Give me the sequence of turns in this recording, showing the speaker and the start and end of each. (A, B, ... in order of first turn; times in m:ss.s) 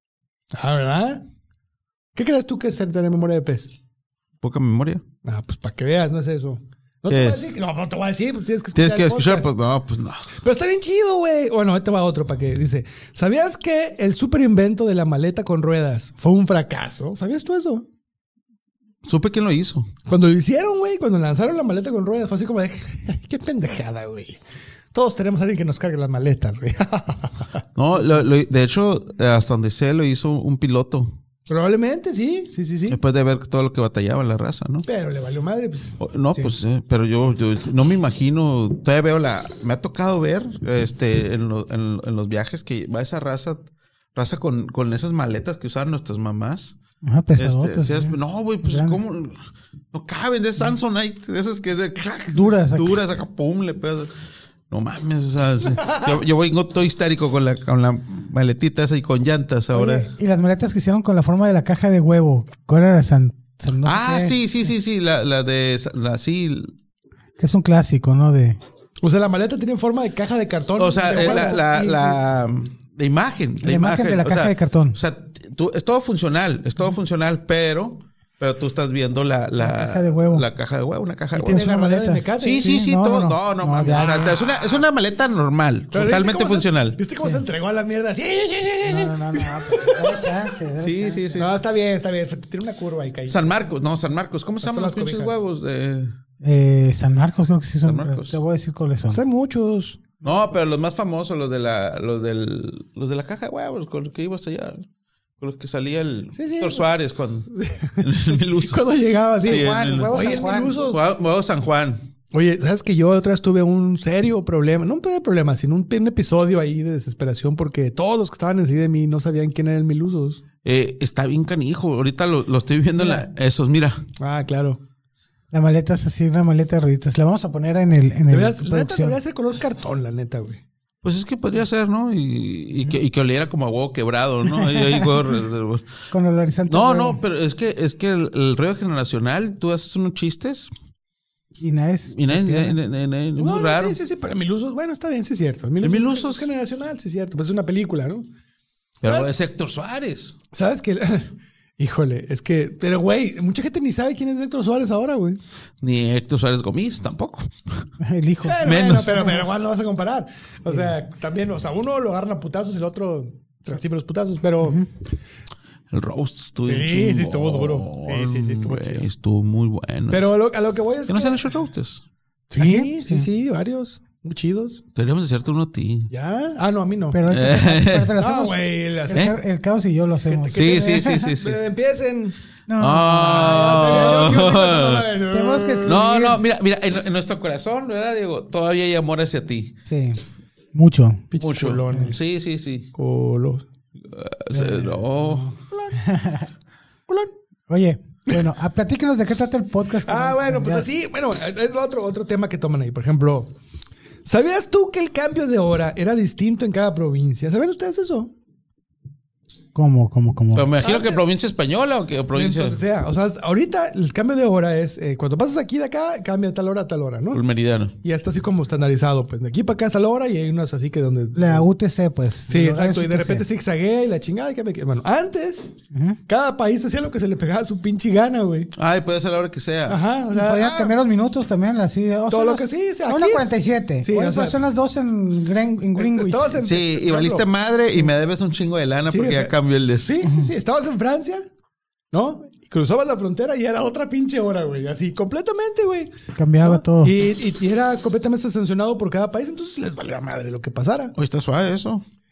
0:00.5-0:01.2 A
0:02.1-0:03.7 A
0:04.4-0:05.0 B
0:05.2-0:09.5 A
0:07.1-0:07.5 B
0:08.8-0:10.3 B
0:10.4-0:17.8 A
0:19.0-0:19.9 B
0:20.1-0:24.4 A
0:24.9-0:27.5 A
0:27.8-0:31.1 B
0:31.5-0:33.0 A
0:32.9-0:34.8 B
0:34.8-0:36.0 A
0:36.0-0:46.8 B
0:47.0-0:49.0 C
0:47.4-0:49.4 B
0:49.9-0:54.1 B
0:52.3-0:53.0 C
0:54.7-1:00.1 B
0:59.7-1:04.4 C
1:03.8-1:06.7 B
1:07.4-1:08.6 C
1:09.0-1:12.2 A
1:10.8-1:21.6 B
1:11.1-1:11.5 C
1:13.6-1:15.0 C
1:19.6-1:20.4 C
1:21.4-1:22.8 A
1:21.4-1:24.4 C
1:22.4-1:27.0 B
1:24.0-1:24.8 A
1:25.9-1:30.2 A
1:28.8-1:31.5 C
1:30.8-1:31.5 B
1:31.4-1:33.5 A
1:33.3-1:36.1 B
1:34.6-1:35.4 A
1:36.4-1:39.2 C
1:37.8-1:38.4 B
1:39.1-1:40.0 A
1:40.2-1:44.8 B
1:45.4-1:48.8 B
1:46.3-1:46.9 A
1:47.5-1:51.0 A
1:49.4-1:50.8 C
1:49.4-1:52.0 B
1:52.3-2:00.4 A
2:00.6-2:04.0 B
2:04.2-2:04.8 A
2:05.5-2:09.2 C
2:08.3-2:10.6 A
2:11.0-2:15.9 B
2:14.5-2:15.1 C
2:16.1-2:17.2 C
2:16.7-2:20.7 B
2:21.6-2:22.8 C
2:22.1-2:24.0 B
2:23.4-2:28.3 A
2:25.8-2:26.4 B
2:29.0-2:30.4 B
2:29.0-2:29.3 A
2:30.5-2:35.4 A
2:35.8-2:37.8 B
2:38.0-2:39.4 C
2:38.4-2:44.8 A
2:38.6-2:39.4 B
2:44.6-2:44.9 C
2:45.9-2:50.3 B
2:46.6-2:49.0 A
2:50.1-2:51.4 A
2:51.1-2:52.0 B
2:52.5-2:54.8 A
2:52.5-2:53.3 C
2:54.9-2:56.1 B
2:56.1-2:57.2 A
2:57.1-3:01.3 C
2:57.3-2:58.1 B
2:58.2-2:59.3 A
3:00.3-3:02.4 A
3:00.5-3:01.6 B
3:02.7-3:04.5 C
3:02.8-3:05.1 B
3:03.3-3:06.0 A
3:05.3-3:06.4 C
3:05.8-3:09.7 B
3:09.8-3:10.2 C
3:10.7-3:11.3 C
3:11.3-3:12.2 A
3:11.4-3:12.9 B
3:12.9-3:13.6 A
3:14.0-3:15.5 B
3:14.5-3:16.5 C
3:17.7-3:20.9 C
3:20.0-3:23.5 A
3:24.2-3:28.3 A
3:29.7-3:30.7 C
3:30.5-3:32.8 B
3:30.8-3:31.2 A
3:32.3-3:37.4 A
3:37.3-3:37.9 B
3:38.0-3:41.7 A
3:41.3-3:43.4 C
3:42.5-3:45.7 A
3:45.9-3:46.2 C
3:46.3-3:48.7 A
3:48.8-3:50.0 B
3:49.9-3:50.9 A
3:50.3-3:56.6 C
3:52.3-3:54.6 A
3:56.0-3:57.4 A
3:56.6-4:00.3 B
3:59.1-4:01.4 A
4:02.1-4:11.1 A
4:06.4-4:07.2 C
4:11.2-4:12.0 B